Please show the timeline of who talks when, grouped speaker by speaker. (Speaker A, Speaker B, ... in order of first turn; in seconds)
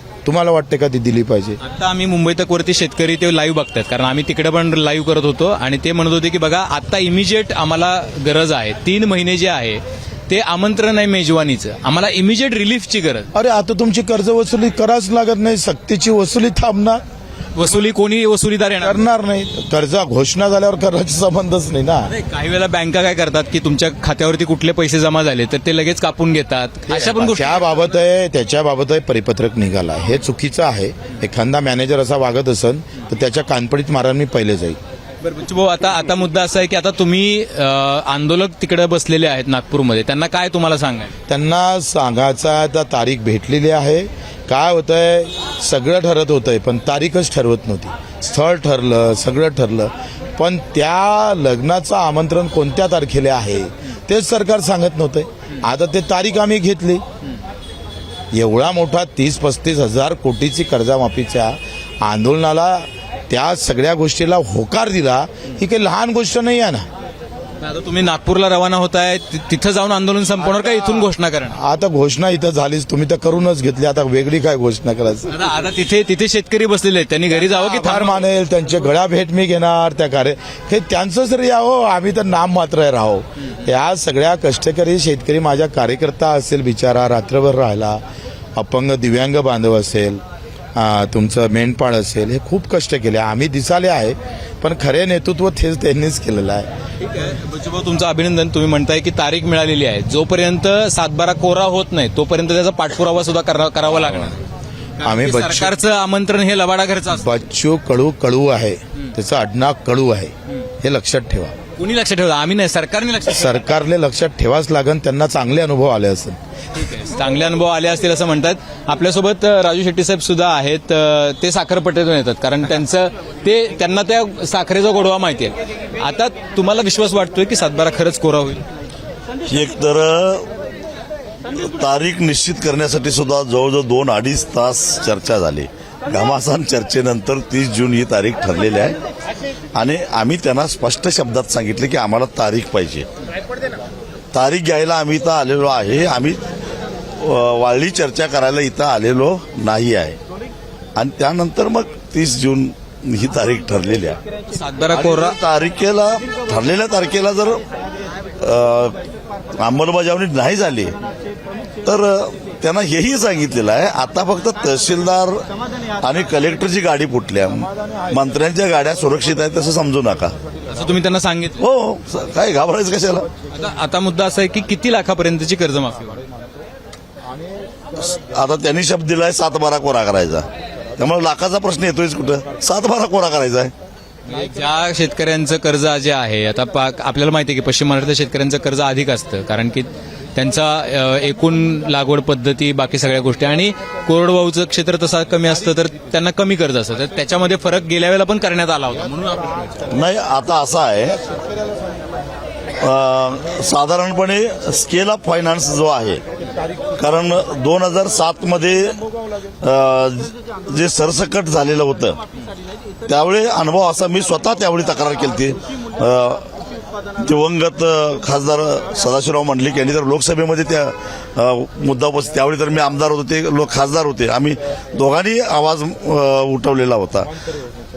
Speaker A: 0.2-1.6, 13.3-17.0, 18.8-22.1, 26.9-34.8, 41.3-57.0, 58.3-66.9, 71.5-75.3, 77.5-88.0, 88.5-90.2, 90.7-96.7, 105.0-105.7, 107.1-111.5, 113.3-116.4
Speaker B: 1.6-13.3, 17.5-19.0, 22.1-27.6, 35.2-41.1, 67.6-71.6, 75.3-78.2, 97.0-104.4, 105.0-107.2, 111.8-113.5, 116.7-128.6, 154.5-155.3, 170.7-171.6, 173.5-176.2, 184.3-199.8
Speaker C: 129.5-130.5, 131.5-139.0, 139.7-143.1, 144.3-146.4, 147.2-150.2, 150.9-154.2, 154.9-157.6, 158.4-159.0, 159.6-160.9, 161.8-165.4, 166.0-170.3, 171.6-173.3, 177.9-183.7, 199.9-201.2, 202.8-206.2, 206.9-209.0, 209.6-212.2, 213.1-216.5, 217.2-227.3